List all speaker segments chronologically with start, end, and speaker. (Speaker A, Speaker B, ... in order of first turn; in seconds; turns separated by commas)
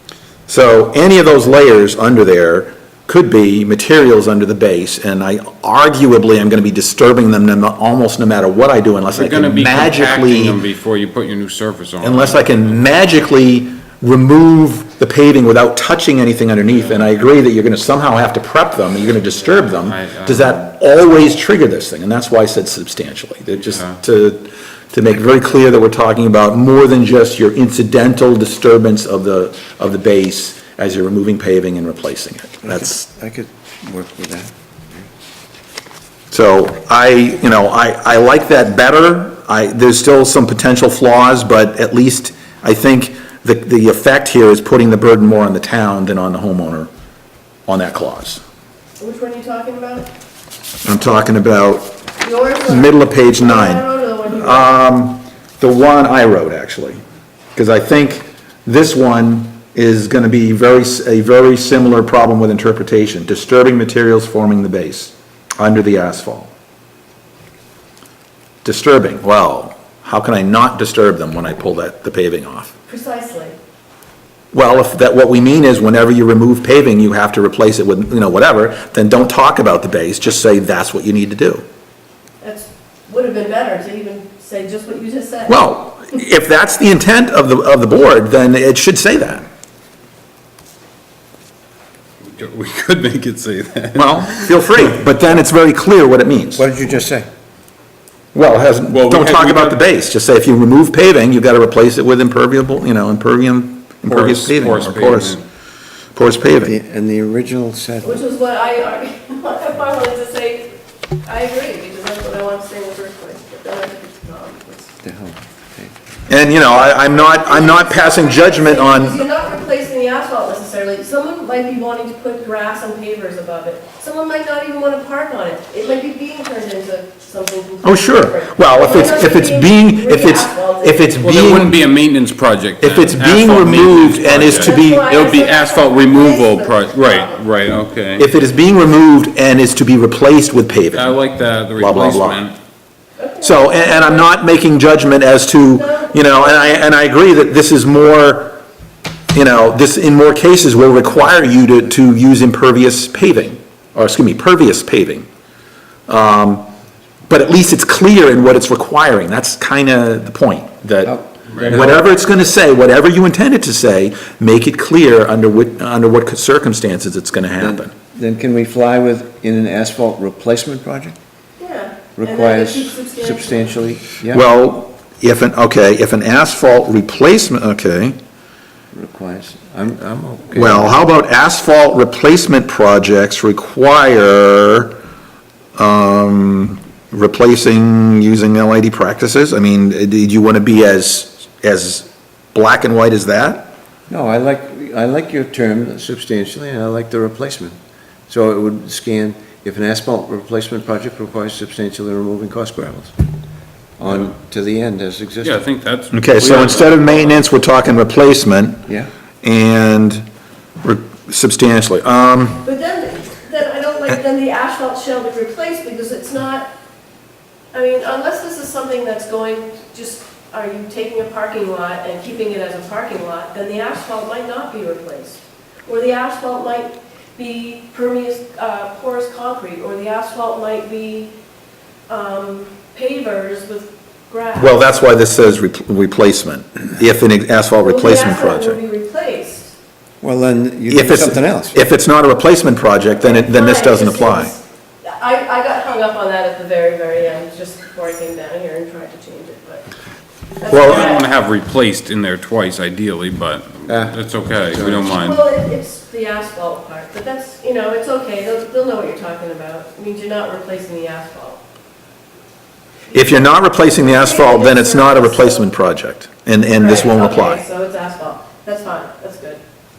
Speaker A: 0.5-10.6, Speaker B: 9.1-12.9, Speaker A: 12.0-33.0, Speaker B: 19.6-20.5, Speaker B: 23.7-24.0, Speaker C: 32.6-35.1, Speaker A: 36.3-46.9, Speaker A: 47.7-48.4, Speaker D: 49.0-50.1, Speaker A: 50.8-51.9, Speaker D: 52.2-54.8, Speaker A: 52.7-57.0, Speaker A: 57.5-66.5, Speaker A: 68.6-72.7, Speaker D: 72.9-73.5, Speaker A: 74.5-81.6, Speaker D: 82.4-85.7, Speaker A: 85.5-89.5, Speaker B: 92.2-94.9, Speaker A: 93.9-96.7, Speaker C: 96.5-97.2, Speaker A: 98.3-105.4, Speaker B: 98.9-99.8, Speaker B: 104.1-105.4, Speaker A: 106.1-106.8, Speaker C: 106.6-108.2, Speaker D: 108.0-114.9, Speaker C: 115.0-116.0, Speaker A: 116.3-119.2, Speaker D: 116.9-131.1, Speaker A: 127.8-131.8, Speaker B: 131.2-138.2, Speaker A: 132.8-135.0, Speaker D: 134.4-137.4, Speaker A: 138.2-141.2, Speaker B: 140.9-142.6, Speaker A: 141.8-142.4, Speaker D: 143.2-144.3, Speaker A: 143.4-148.6, Speaker D: 145.7-146.8, Speaker A: 149.3-155.3, Speaker A: 156.1-156.7, Speaker A: 157.3-167.9, Speaker C: 161.0-162.0, Speaker B: 161.5-161.8, Speaker C: 167.6-171.2, Speaker D: 171.6-173.8, Speaker C: 172.2-174.4, Speaker A: 174.3-178.2, Speaker C: 178.9-180.9, Speaker A: 180.5-185.0, Speaker A: 185.8-193.7, Speaker C: 194.1-197.7, Speaker C: 198.3-203.1, Speaker C: 204.0-205.6, Speaker B: 205.4-207.4, Speaker A: 206.1-208.8, Speaker A: 209.4-210.2, Speaker A: 210.8-212.6, Speaker D: 212.6-216.7, Speaker D: 217.7-231.3, Speaker D: 232.1-234.9, Speaker A: 234.6-238.8, Speaker D: 237.8-239.7, Speaker C: 240.2-241.8, Speaker A: 240.9-244.5, Speaker D: 243.2-249.8, Speaker D: 250.6-251.3, Speaker A: 250.7-251.1, Speaker B: 250.8-255.4, Speaker C: 253.9-255.1, Speaker D: 255.1-261.6, Speaker A: 263.1-267.6, Speaker D: 263.1-265.7, Speaker D: 266.8-269.6